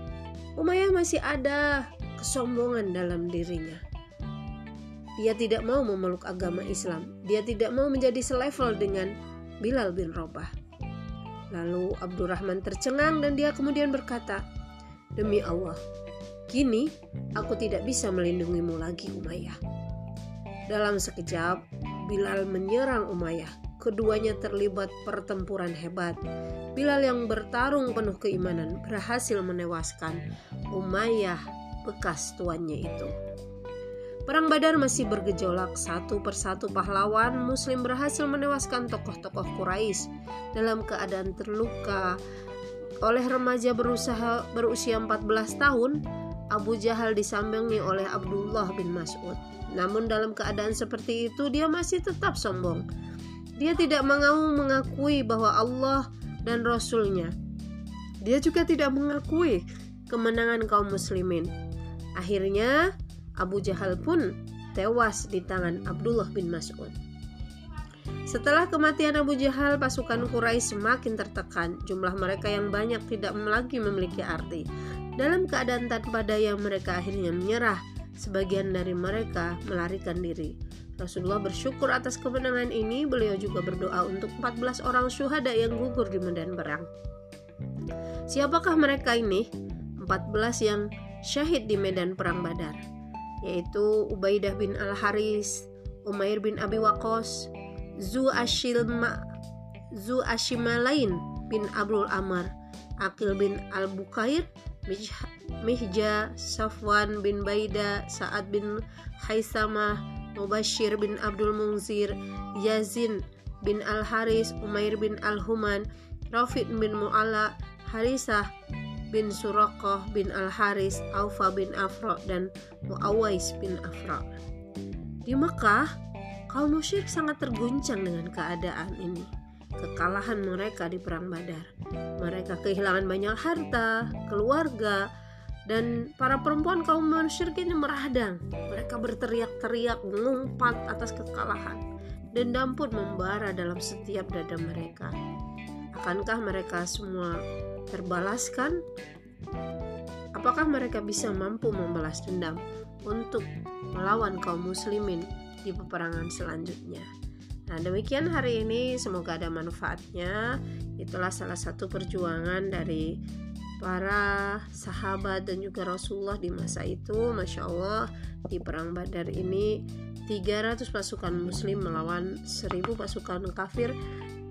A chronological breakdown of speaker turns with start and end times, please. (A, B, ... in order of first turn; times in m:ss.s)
0:00.6-0:03.8 A
0:05.2-0:10.5 A
0:11.5-0:14.4 A
0:15.2-0:15.8 A
0:16.5-0:19.6 A
0:20.7-0:26.2 A
0:26.8-0:30.2 A
0:30.7-0:33.1 A
0:34.3-0:42.2 A
0:43.0-0:46.0 A
0:46.5-0:52.8 A
0:53.6-0:57.3 A
0:58.2-1:01.5 A
1:02.2-1:02.9 A
1:03.4-1:07.0 A
1:08.3-1:14.7 A
1:15.2-1:26.9 A
1:28.3-1:29.5 A
1:30.0-1:32.8 A
1:33.4-1:37.5 A
1:38.0-1:39.2 A
1:40.0-1:42.5 A
1:43.0-1:58.5 A
1:59.1-2:04.3 A
2:05.3-2:05.9 A
2:06.5-2:11.7 A
2:12.2-2:15.1 A
2:15.7-2:21.8 A
2:22.3-2:25.2 A
2:26.0-2:28.8 A
2:30.4-2:37.1 A
2:37.7-2:43.2 A
2:43.8-2:54.0 A